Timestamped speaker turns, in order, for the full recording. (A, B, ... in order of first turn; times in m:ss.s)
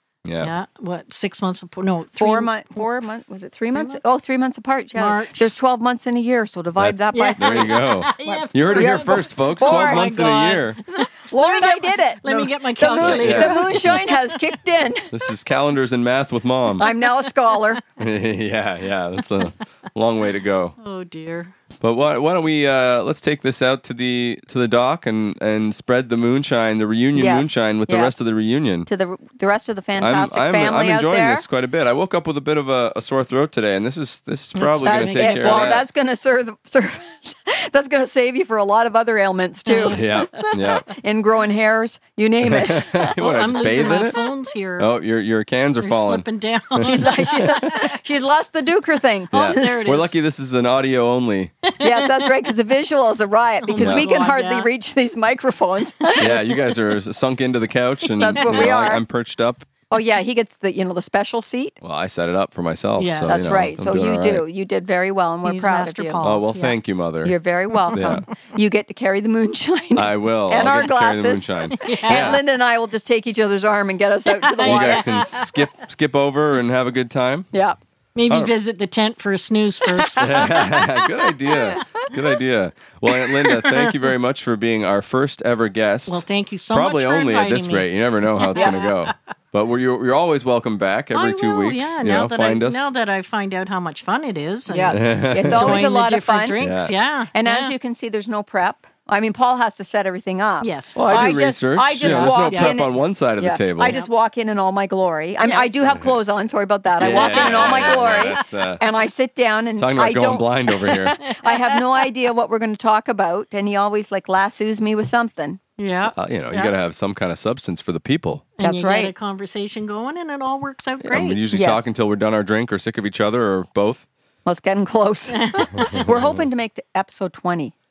0:00.2-0:00.5 A
0:00.4-0:02.5 B
0:02.2-0:10.3 C
0:03.8-0:04.0 B
0:05.0-0:05.5 B
0:06.8-0:10.8 A
0:07.1-0:14.6 B
0:11.2-0:15.1 C
0:12.9-0:14.1 A
0:15.1-0:16.9 A
0:16.8-0:17.8 C
0:16.8-0:17.5 B
0:18.0-0:20.7 A
0:20.8-0:21.6 B
0:21.8-0:28.9 A
0:27.1-0:28.1 C
0:28.9-0:31.4 C
0:30.0-0:35.8 A
0:34.5-0:35.8 B
0:34.8-0:43.2 C
0:39.6-0:40.8 B
0:39.9-0:40.9 A
0:42.4-0:44.2 A
0:43.0-0:44.9 B
0:44.8-0:46.2 A
0:45.8-0:48.0 B
0:46.8-0:49.7 C
0:49.3-0:50.1 B
0:49.3-0:51.5 A
0:51.6-0:52.3 B
0:51.8-0:56.4 C
0:53.6-0:54.7 B
0:53.8-0:54.0 A
0:56.0-0:56.4 B
0:56.2-0:59.7 A
0:58.2-0:59.0 C
0:58.4-0:58.7 B
0:59.9-1:01.8 C
1:01.8-1:04.4 A
1:03.0-1:03.4 B
1:03.3-1:06.2 C
1:05.4-1:06.8 B
1:06.2-1:07.3 A
1:07.2-1:15.4 C
1:07.7-1:08.3 B
1:07.9-1:08.2 A
1:09.9-1:12.4 A
1:11.7-1:12.4 B
1:14.3-1:15.5 B
1:14.6-1:17.5 A
1:17.5-1:17.8 C
1:18.1-1:21.1 B
1:19.9-1:20.5 C
1:20.2-1:32.9 A
1:21.5-1:22.1 C
1:23.5-1:23.9 B
1:26.1-1:29.1 B
1:31.1-1:37.7 B
1:34.7-1:36.6 C
1:34.9-1:35.9 A
1:36.6-1:36.9 A
1:37.3-1:55.6 C
1:40.6-1:41.4 B
1:41.0-1:44.0 A
1:42.0-1:42.8 B
1:45.4-1:45.9 B
1:47.0-1:48.8 A
1:47.0-1:48.4 B
1:49.8-1:51.2 A
1:50.9-1:52.0 B
1:55.8-1:56.7 B
1:56.2-1:58.5 A
1:58.6-2:01.4 B
1:58.6-1:59.1 C
2:01.0-2:04.0 A
2:01.5-2:01.9 C
2:04.4-2:07.7 C
2:05.3-2:06.1 B
2:06.1-2:06.4 A